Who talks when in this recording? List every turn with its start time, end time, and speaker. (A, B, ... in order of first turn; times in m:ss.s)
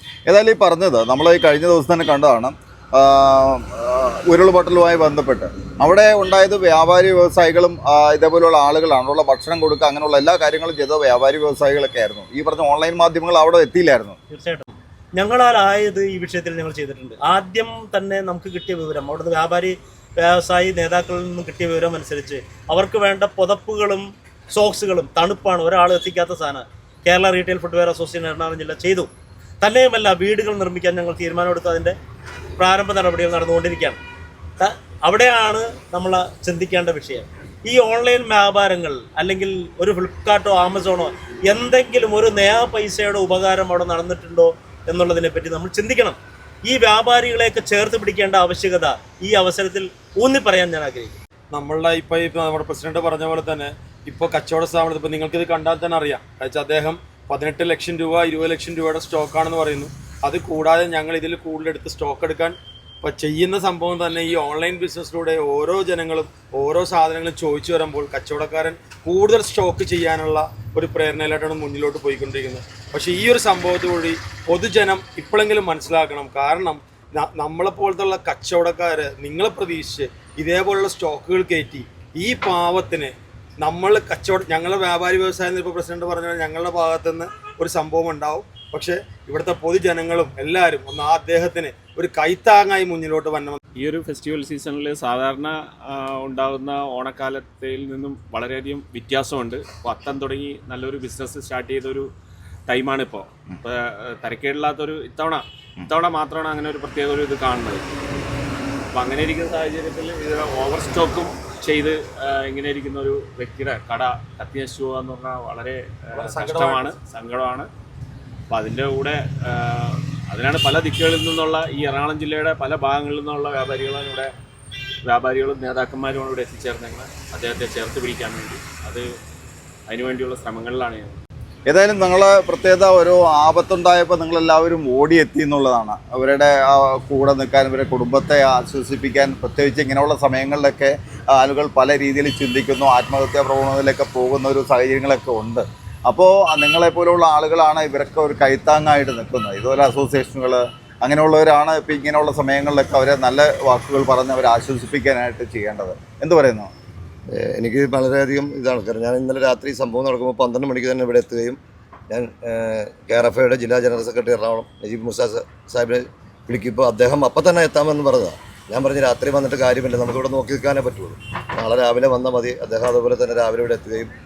0:00.3-0:14.2 A
0:14.3-0:31.9 B
0:32.6-0:34.0 B
0:34.6-0:51.2 B
0:51.5-1:33.6 C
1:33.8-1:42.1 D
1:42.7-1:47.9 D
1:48.9-1:57.7 D
1:56.1-1:56.9 C
1:58.5-2:04.3 D
2:05.0-2:09.0 D
2:09.9-2:11.2 D
2:11.6-2:36.7 A
2:37.3-2:54.1 E